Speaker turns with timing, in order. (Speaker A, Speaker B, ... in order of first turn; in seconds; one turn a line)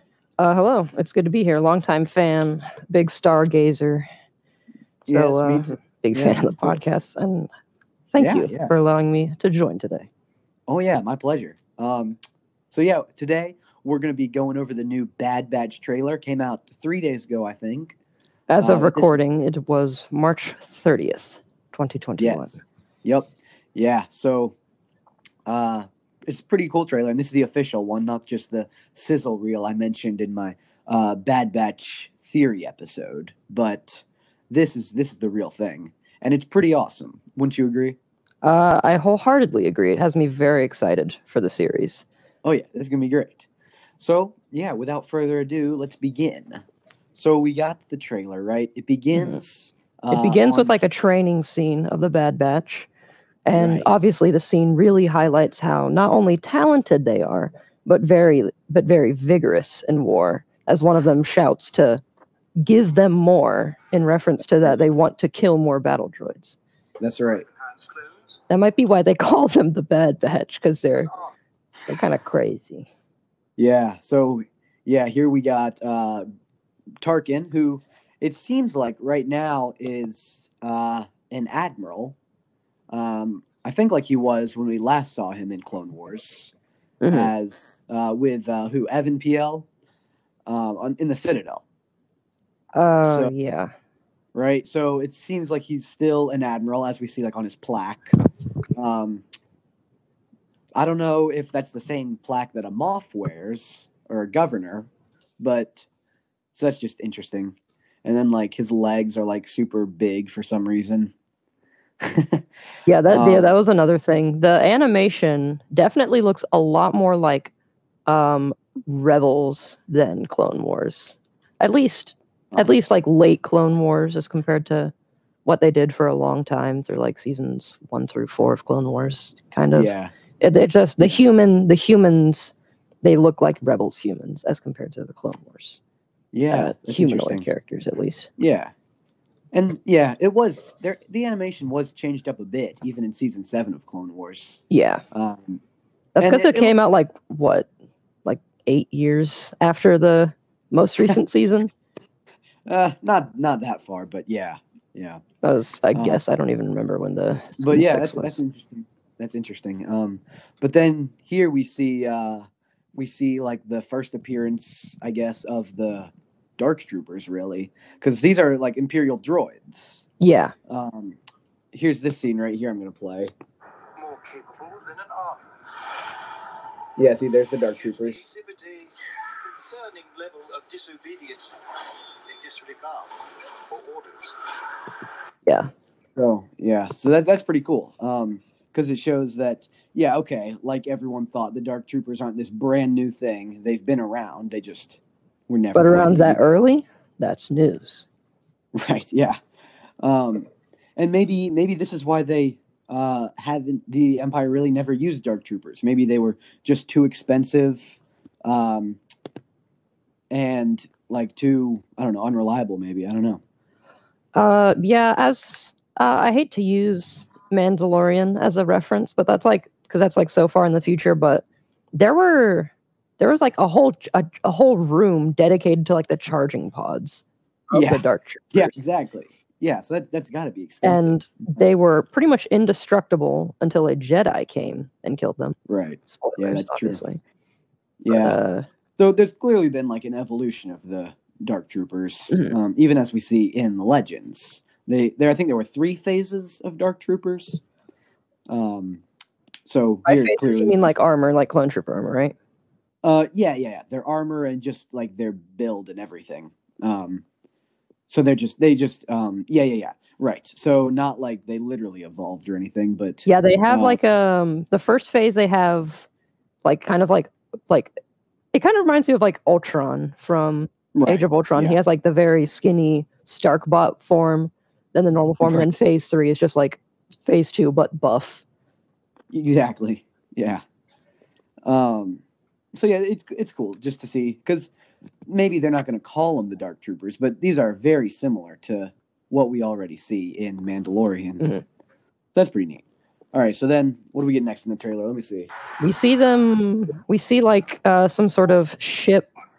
Speaker A: 0.4-4.0
Speaker B: 5.1-7.0
Speaker A: 5.1-7.5
Speaker A: 8.1-10.1
Speaker B: 8.2-8.7
Speaker B: 10.7-12.2
Speaker B: 12.7-17.9
Speaker A: 18.5-22.6
Speaker B: 18.6-19.2
Speaker B: 22.2-24.5
Speaker B: 25.4-38.0
Speaker A: 38.4-42.0
Speaker B: 42.4-43.5
Speaker B: 44.0-46.6
Speaker B: 47.1-50.8
Speaker A: 49.1-49.4
Speaker A: 50.1-52.9
Speaker A: 53.5-62.0
Speaker B: 53.5-53.9
Speaker A: 62.6-66.6
Speaker B: 67.0-67.5
Speaker A: 68.5-71.1
Speaker A: 71.9-72.9
Speaker B: 73.6-76.2
Speaker B: 77.0-82.2
Speaker B: 82.9-86.5
Speaker A: 87.0-87.3
Speaker B: 87.1-89.7
Speaker B: 90.5-91.6
Speaker A: 92.8-93.7
Speaker B: 93.0-93.3
Speaker B: 94.3-98.2
Speaker B: 98.7-99.2
Speaker B: 100.8-105.9
Speaker B: 106.5-111.1
Speaker B: 112.0-112.4
Speaker A: 112.8-117.5
Speaker B: 113.1-113.5
Speaker A: 118.1-124.9
Speaker A: 125.4-135.8
Speaker B: 129.7-130.1
Speaker B: 136.3-137.5
Speaker A: 136.5-138.3
Speaker B: 138.4-138.7
Speaker B: 139.5-145.6
Speaker A: 144.7-145.0
Speaker A: 146.2-147.7
Speaker B: 146.2-146.8
Speaker A: 148.2-151.7
Speaker B: 152.7-155.2
Speaker A: 155.4-158.4
Speaker B: 155.9-156.2
Speaker B: 157.6-170.1
Speaker A: 170.2-170.5
Speaker B: 170.7-171.2
Speaker B: 171.7-173.3
Speaker C: 174.0-175.6
Speaker B: 177.0-178.3
Speaker C: 177.8-184.4
Speaker A: 185.4-185.7
Speaker B: 186.2-196.4
Speaker A: 195.7-198.1
Speaker B: 198.7-199.4
Speaker B: 200.0-209.0
Speaker B: 210.3-213.4
Speaker A: 214.3-228.8
Speaker B: 227.7-231.6
Speaker A: 230.8-237.2
Speaker B: 235.7-237.0
Speaker B: 238.0-238.4
Speaker A: 238.1-238.7
Speaker B: 239.0-247.6
Speaker A: 242.3-242.5
Speaker B: 248.5-249.0
Speaker B: 249.6-251.0
Speaker A: 250.0-252.3
Speaker B: 253.0-257.2
Speaker B: 258.1-264.0
Speaker A: 263.2-266.1
Speaker A: 266.6-267.9
Speaker A: 268.5-278.4
Speaker B: 270.9-271.8
Speaker B: 279.3-280.6
Speaker B: 281.6-282.2
Speaker B: 282.7-284.7
Speaker B: 285.2-291.5
Speaker B: 292.3-295.5
Speaker A: 295.8-299.3